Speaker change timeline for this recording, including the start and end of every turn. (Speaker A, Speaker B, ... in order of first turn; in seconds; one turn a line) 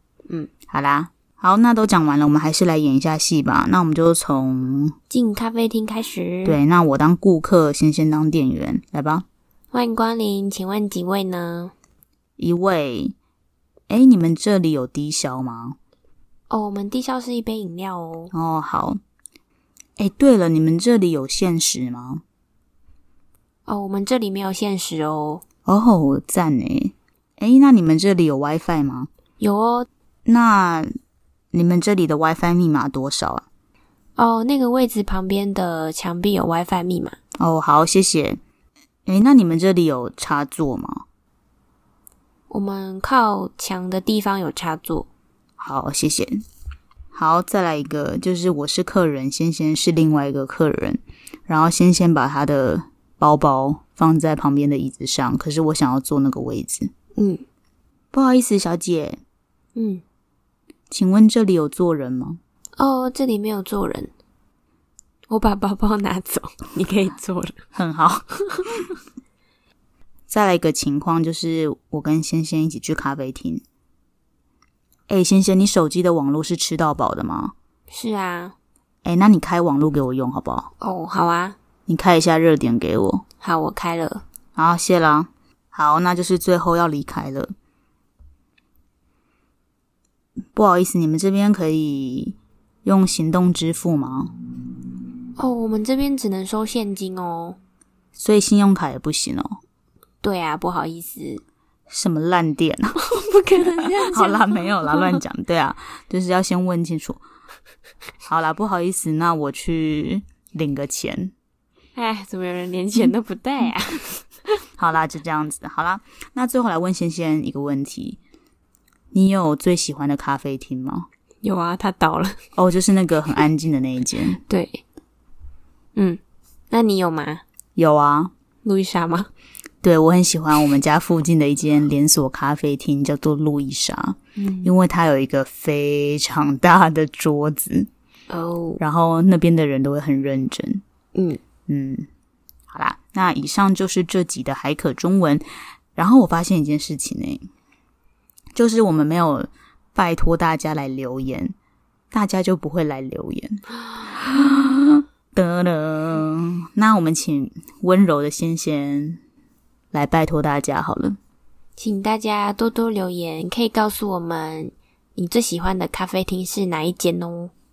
Speaker A: 0.7-5.0
Speaker B: 5.1-6.6
Speaker A: 6.4-9.3
Speaker B: 9.7-11.7
Speaker A: 12.4-13.1
Speaker A: 13.9-15.8
Speaker B: 16.5-18.3
Speaker A: 18.3-19.0
Speaker A: 20.0-22.2
Speaker B: 23.7-25.4
Speaker A: 25.6-29.1
Speaker B: 29.4-29.9
Speaker A: 30.3-30.9
Speaker A: 31.5-33.4
Speaker B: 34.2-37.2
Speaker A: 37.4-38.4
Speaker A: 39.1-41.0
Speaker B: 42.5-45.1
Speaker A: 45.6-46.4
Speaker A: 47.1-56.9
Speaker B: 57.1-57.4
Speaker A: 58.1-59.2
Speaker B: 59.8-60.0
Speaker A: 60.9-62.4
Speaker B: 62.8-64.1
Speaker B: 65.3-67.6
Speaker A: 67.8-68.9
Speaker B: 68.3-68.8
Speaker A: 70.3-73.6
Speaker A: 75.1-77.5
Speaker B: 77.9-78.6
Speaker A: 79.0-80.7
Speaker B: 80.8-81.6
Speaker A: 81.9-83.2
Speaker B: 83.4-84.2
Speaker A: 84.6-87.5
Speaker A: 90.5-94.3
Speaker B: 95.4-97.6
Speaker A: 98.2-99.6
Speaker B: 100.2-101.4
Speaker A: 101.9-107.2
Speaker B: 103.0-105.2
Speaker A: 108.2-111.3
Speaker B: 112.0-114.5
Speaker A: 114.8-118.2
Speaker A: 119.1-121.1
Speaker B: 121.4-122.4
Speaker A: 122.6-124.4
Speaker B: 124.5-124.8
Speaker B: 125.9-127.4
Speaker A: 127.8-128.3
Speaker B: 128.6-129.3
Speaker A: 129.8-137.9
Speaker B: 134.4-134.7
Speaker B: 138.3-138.8
Speaker A: 138.8-140.8
Speaker B: 141.1-141.4
Speaker A: 141.7-142.1
Speaker A: 142.7-145.4
Speaker A: 145.9-147.5
Speaker A: 148.6-151.6
Speaker A: 152.1-159.2
Speaker A: 159.9-161.2
Speaker B: 161.8-167.5